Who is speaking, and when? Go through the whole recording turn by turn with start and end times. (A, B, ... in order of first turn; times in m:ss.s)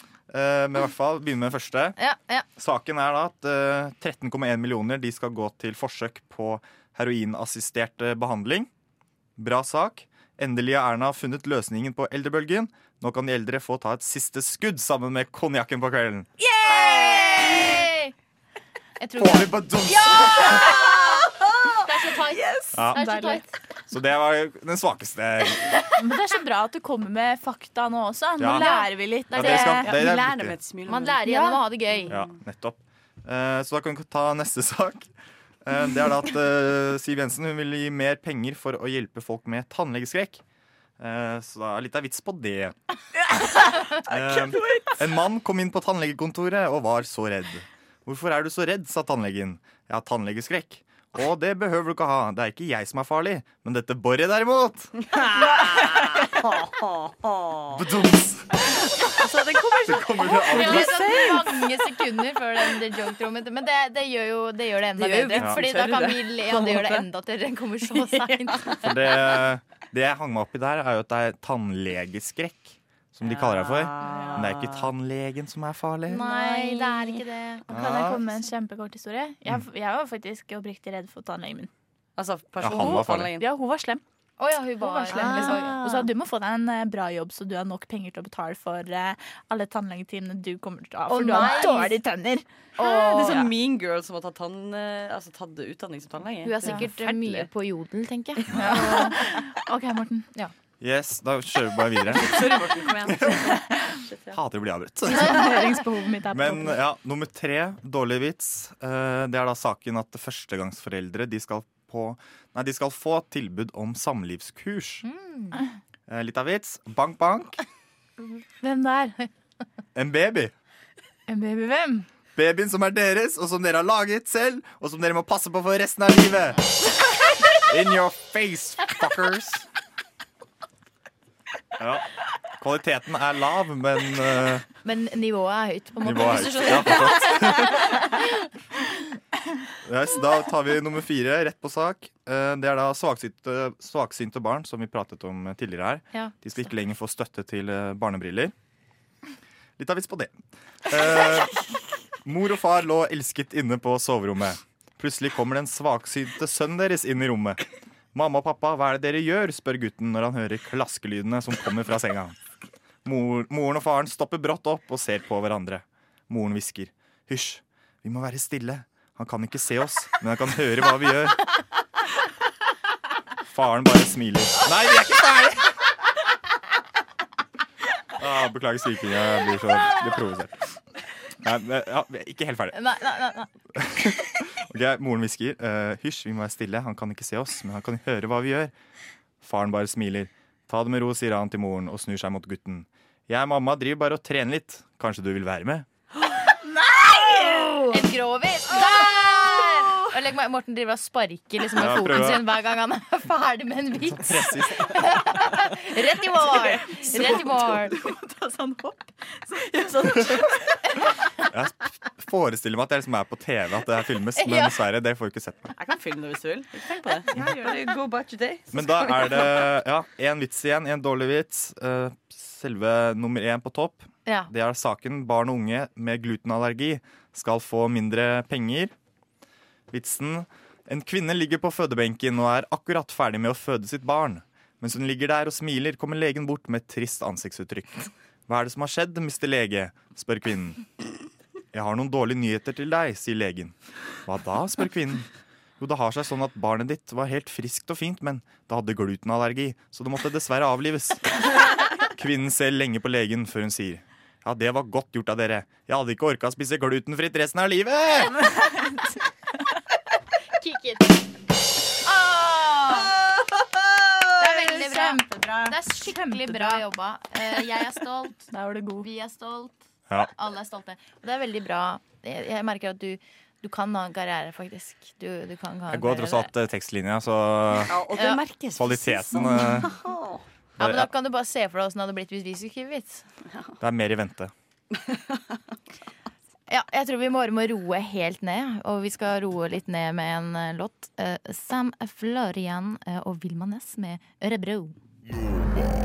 0:00.3-0:02.0 A
0:02.0-0:02.5 B
0:02.6-0:08.7 A
0:09.4-0:16.3 A
0:16.4-0:17.9 C
0:16.6-0:18.1 B
0:19.0-0:21.3 B
0:19.2-0:20.7 A
0:20.2-0:23.4 C
0:21.8-0:23.5 B
0:22.7-0:23.0 A
0:23.9-0:25.7 A
0:26.0-0:29.9 C
0:28.4-0:28.7 A
0:28.5-0:30.0 B
0:29.3-0:30.6 A
0:29.5-0:31.2 D
0:30.8-0:32.2 B
0:31.2-0:31.6 C
0:32.1-0:35.1 A
0:35.6-0:40.4 A
0:41.0-0:42.7 A
0:44.0-0:56.2 A
0:55.1-0:57.8 D
0:57.7-0:58.6 A
0:59.2-1:01.4 D
0:59.8-1:01.3 A
1:00.4-1:08.9 B
1:05.0-1:07.0 D
1:05.4-1:05.6 A
1:08.8-1:16.2 A
1:13.2-1:14.9 D
1:14.0-1:14.4 C
1:16.1-1:17.6 B
1:16.2-1:21.7 C
1:17.7-1:18.2 A
1:22.2-1:23.5 D
1:22.6-1:23.3 A
1:22.6-1:24.0 C
1:24.4-1:26.1 B
1:24.8-1:32.4 C
1:25.1-1:25.8 D
1:31.1-1:32.0 B
1:32.8-1:33.5 B
1:32.8-1:37.5 D
1:36.4-1:39.1 B
1:38.5-1:40.3 C
1:40.8-1:42.6 A
1:42.1-1:44.4 D
1:43.1-1:43.4 A
1:44.3-1:45.6 A
1:45.1-1:46.8 C
1:46.3-1:55.0 A
1:55.0-1:55.6 B
1:56.1-1:57.6 A
1:58.6-1:59.3 C
1:59.9-2:00.5 A
2:01.3-2:02.1 C
2:02.4-2:06.6 A
2:07.6-2:09.6 A
2:11.8-2:14.6 A
2:14.8-2:18.4 B
2:16.0-2:17.9 A
2:19.8-2:28.5 A
2:29.8-2:31.6 A
2:32.2-2:37.6 A
2:38.1-2:42.4 A
2:43.0-2:51.4 A
2:53.5-2:55.7 A
2:58.2-3:00.6 A
3:01.4-3:02.8 A
3:02.7-3:03.5 B
3:03.7-3:08.7 A
3:09.4-3:15.9 A
3:16.6-3:18.1 C
3:17.9-3:27.9 B
3:21.7-3:22.5 A
3:24.0-3:25.2 A
3:26.5-3:31.0 C
3:31.5-3:35.7 A
3:34.4-3:34.8 B
3:35.7-3:39.8 D
3:38.7-3:48.9 A
3:49.9-4:00.8 A
4:01.7-4:05.3 A
4:05.8-4:11.3 A
4:12.0-4:18.5 A
4:20.6-4:21.2 B
4:22.0-4:23.1 B
4:24.4-4:28.5 B
4:24.4-4:26.8 C
4:28.5-4:29.1 C
4:29.0-4:36.5 B
4:35.9-4:37.9 A
4:37.9-4:40.4 D
4:38.1-4:38.4 B
4:38.8-4:39.9 A
4:40.8-4:41.1 A
4:40.8-4:43.2 B
4:43.8-4:44.5 A
4:45.1-4:45.6 D
4:46.7-4:55.0 B